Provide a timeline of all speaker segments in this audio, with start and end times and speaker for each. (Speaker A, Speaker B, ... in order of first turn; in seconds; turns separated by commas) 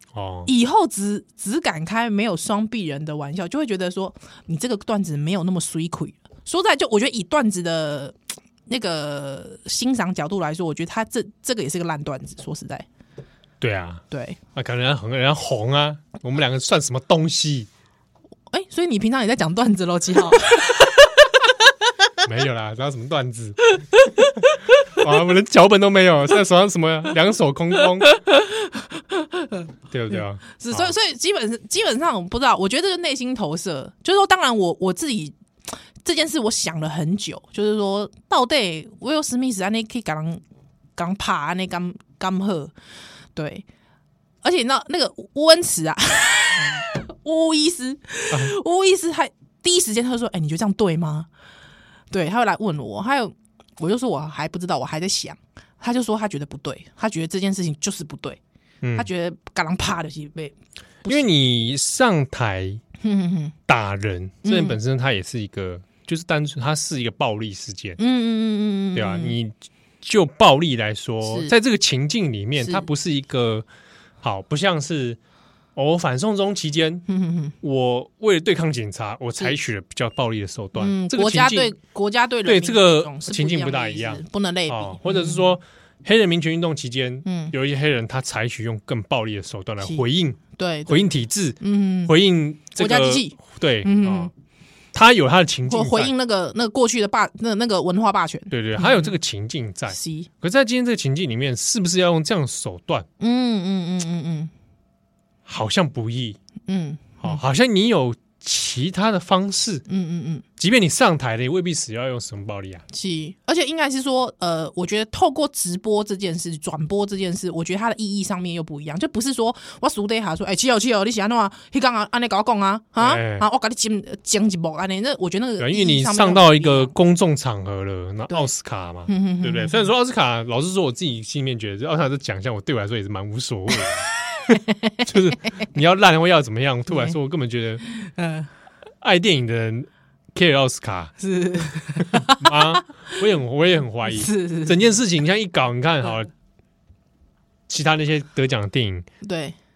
Speaker A: 0.1-0.5, Speaker B: 0.5-8.2, Speaker B: 8.7-12.9, Speaker A: 13.6-14.0, Speaker B: 14.1-14.4, Speaker A: 14.6-17.7, Speaker B: 18.5-21.5, Speaker A: 22.2-23.6, Speaker B: 23.8-24.6, Speaker A: 24.9-28.1, Speaker B: 28.1-35.4, Speaker A: 29.9-30.9, Speaker B: 36.0-40.4, Speaker B: 41.0-42.7, Speaker B: 43.4-43.6, Speaker B: 44.4-51.3, Speaker B: 52.1-58.4, Speaker A: 58.8-59.1, Speaker B: 59.0-61.2, Speaker A: 61.1-62.8, Speaker B: 63.0-63.6, Speaker A: 63.7-68.0, Speaker B: 64.4-64.8, Speaker B: 68.0-69.4, Speaker A: 69.0-73.7, Speaker B: 71.2-71.5, Speaker B: 72.6-72.9, Speaker A: 74.2-75.2, Speaker A: 75.8-77.0, Speaker B: 77.1-77.5, Speaker A: 77.6-81.7, Speaker B: 80.8-85.5, Speaker A: 82.5-94.3, Speaker B: 87.2-87.5, Speaker B: 89.8-91.1, Speaker B: 91.6-92.2, Speaker B: 92.8-94.3, Speaker A: 94.9-96.1, Speaker B: 95.7-99.1, Speaker A: 98.5-103.1, Speaker B: 99.9-100.3, Speaker B: 103.2-104.5, Speaker A: 105.5-106.4, Speaker B: 106.7-107.4, Speaker A: 107.2-109.8, Speaker B: 109.9-110.5, Speaker A: 110.6-112.8, Speaker B: 112.9-126.9, Speaker A: 123.0-123.5, Speaker A: 125.6-134.1, Speaker B: 129.1-129.9, Speaker B: 134.3-135.0, Speaker A: 135.0-137.8, Speaker B: 136.9-137.2, Speaker B: 137.9-138.5, Speaker A: 139.0-141.1, Speaker B: 141.2-142.8, Speaker A: 142.1-146.3, Speaker B: 144.1-144.8, Speaker A: 147.7-149.1, Speaker B: 149.2-149.6